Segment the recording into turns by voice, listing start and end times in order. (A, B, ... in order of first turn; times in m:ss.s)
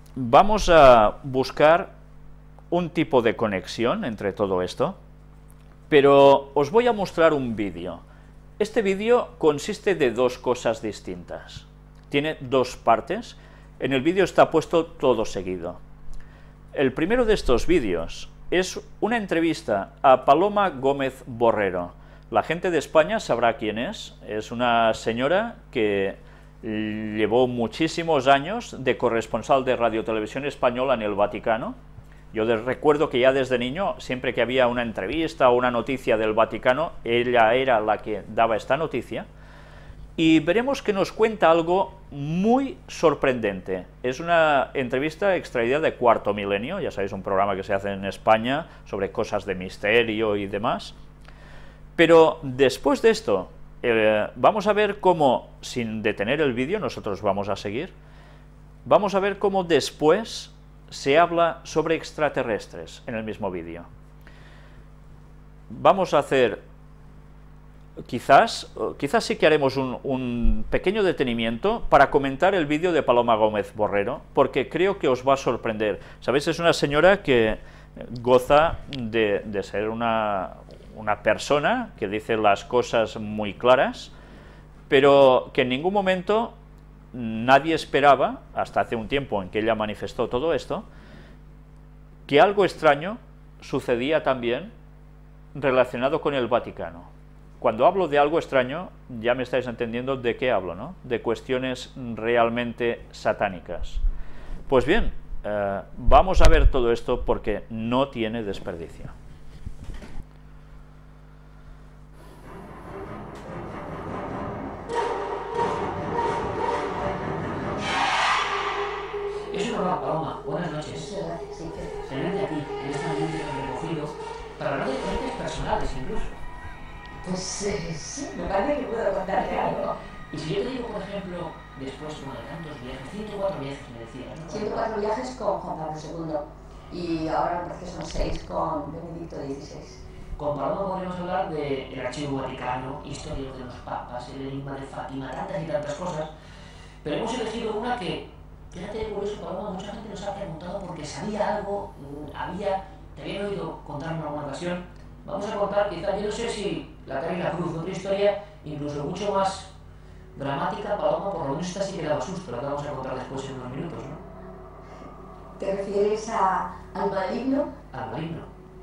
0:00.2-0:01.9 A
0:02.7-0:05.0 A
0:05.9-0:08.0 A
0:08.6-0:15.8 A
0:16.7-0:31.8 A
0:32.3-0:39.2 A
0:40.2-0:50.9 A
0:52.0-0:57.9 A
0:58.8-1:03.8 A
1:05.7-1:06.6 A
1:08.0-1:24.1 A
1:24.9-1:26.6 A
1:27.1-1:30.8 A
1:32.3-1:34.7 A
1:35.5-1:37.1 A
1:37.6-1:44.0 A
1:44.7-1:49.1 A
1:59.5-2:01.1 B
2:00.9-2:02.0 C
2:02.0-2:06.4 B
2:07.2-2:09.9 C
2:10.3-2:14.8 B
2:14.5-2:20.0 C
2:20.4-2:26.3 B
2:27.0-2:39.7 B
2:40.3-2:44.2 B
2:45.6-2:47.7 C
2:47.9-2:48.5 B